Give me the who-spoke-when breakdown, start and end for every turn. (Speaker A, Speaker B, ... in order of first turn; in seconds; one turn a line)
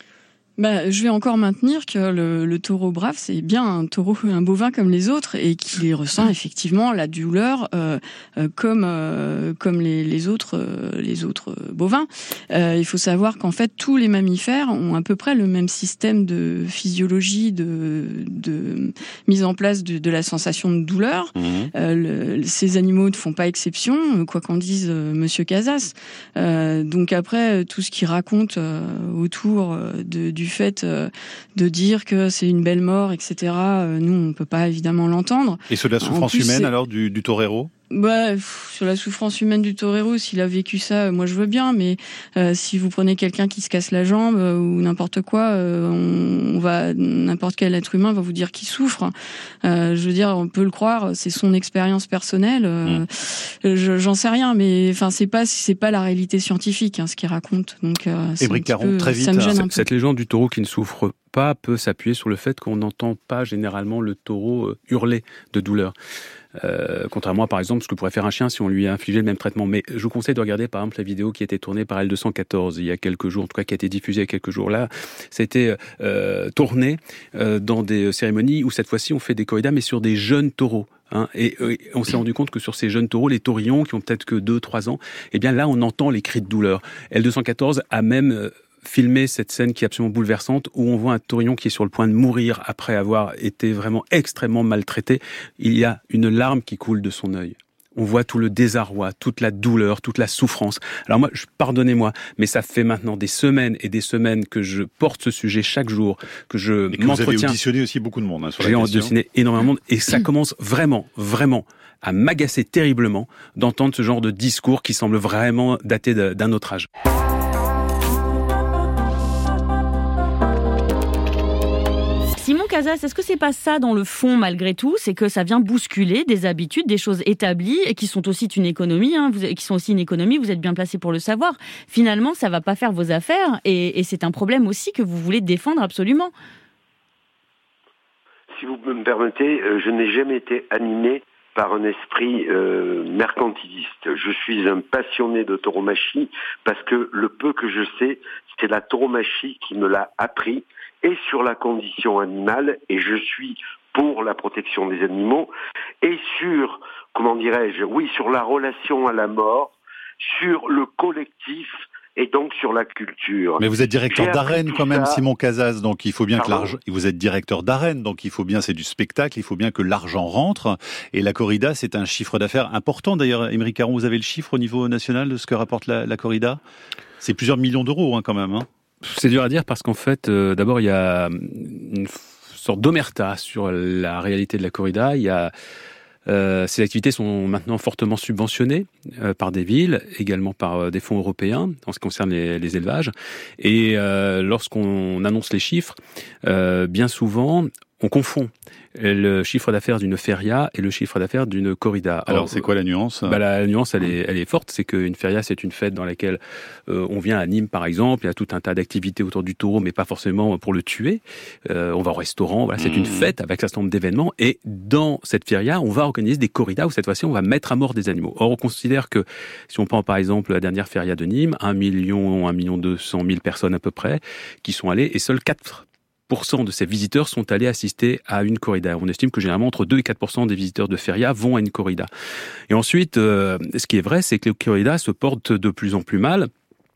Speaker A: 0.6-36.7
Speaker B: 21.4-21.7
Speaker B: 35.7-37.7
Speaker A: 37.9-59.9
Speaker B: 58.4-59.6
Speaker C: 59.5-65.9
Speaker C: 66.6-107.5
Speaker B: 106.9-109.1
Speaker C: 108.6-116.9
Speaker D: 122.3-136.3
Speaker E: 138.5-155.5
Speaker E: 156.0-165.2
Speaker B: 163.6-176.6
Speaker E: 166.4-166.7
Speaker B: 177.2-178.7
Speaker C: 179.0-185.5
Speaker C: 186.3-202.7
Speaker B: 202.3-203.4
Speaker C: 203.2-232.1
Speaker B: 212.8-213.3
Speaker C: 232.7-236.5